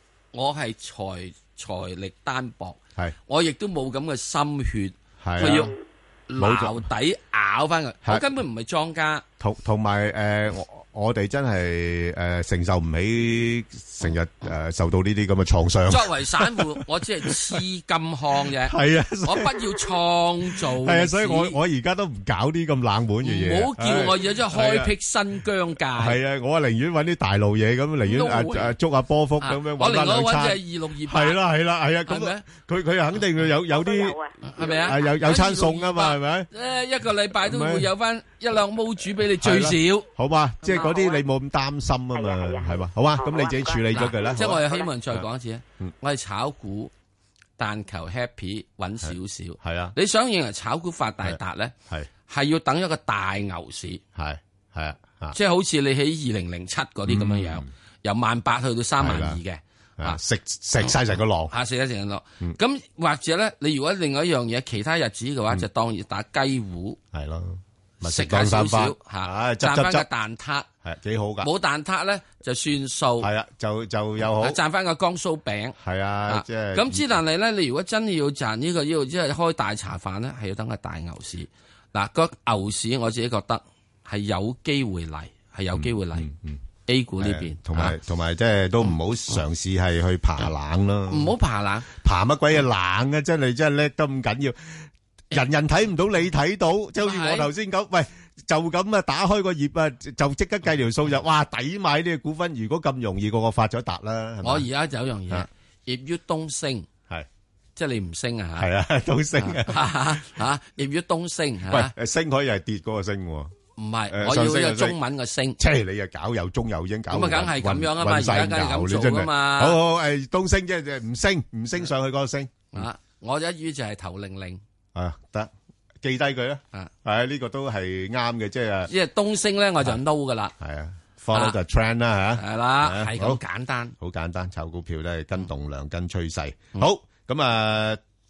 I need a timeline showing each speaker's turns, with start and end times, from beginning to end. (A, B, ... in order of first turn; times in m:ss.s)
0:00.3-0:05.7 A
0:05.2-0:05.7 B
0:06.3-0:09.2 A
0:06.4-0:06.8 B
0:09.4-0:17.6 B
0:15.9-0:21.6 A
0:18.6-0:19.6 B
0:20.8-0:24.9 B
0:23.2-0:26.2 A
0:26.0-0:34.2 B
0:28.0-0:28.7 A
0:29.4-0:31.4 A
0:32.1-0:32.4 A
0:33.7-0:35.0 C
0:34.4-0:40.1 A
0:34.8-0:36.5 B
0:37.4-0:37.9 B
0:39.3-0:45.2 B
0:40.6-0:41.2 C
0:42.1-0:44.9 C
0:43.9-0:46.9 A
0:47.6-0:51.7 A
0:49.0-0:50.0 B
0:51.2-0:52.1 B
0:52.3-0:54.0 A
0:54.1-0:55.4 B
0:55.3-1:00.2 A
0:57.1-0:57.7 B
0:59.0-0:59.4 B
1:00.0-1:01.5 B
1:00.8-1:07.0 A
1:07.1-1:10.1 B
1:08.0-1:10.7 A
1:10.8-1:11.5 B
1:11.4-1:13.3 A
1:13.2-1:14.6 B
1:14.4-1:26.3 A
1:15.8-1:17.2 B
1:25.7-1:26.6 B
1:26.9-1:28.0 A
1:27.2-1:31.3 B
1:31.1-1:31.9 A
1:31.9-1:44.7 B
1:37.0-1:37.5 A
1:44.4-1:46.9 A
1:47.8-1:48.7 A
1:48.6-1:50.2 B
1:49.4-1:51.9 A
1:51.7-1:53.5 B
1:53.8-1:55.6 A
1:54.1-1:55.0 B
1:55.6-2:02.9 B
1:57.1-1:59.8 A
2:02.7-2:04.6 A
2:04.9-2:08.9 B
2:08.9-2:10.5 A
2:10.6-2:13.4 B
2:12.4-2:14.0 A
2:14.0-2:18.0 B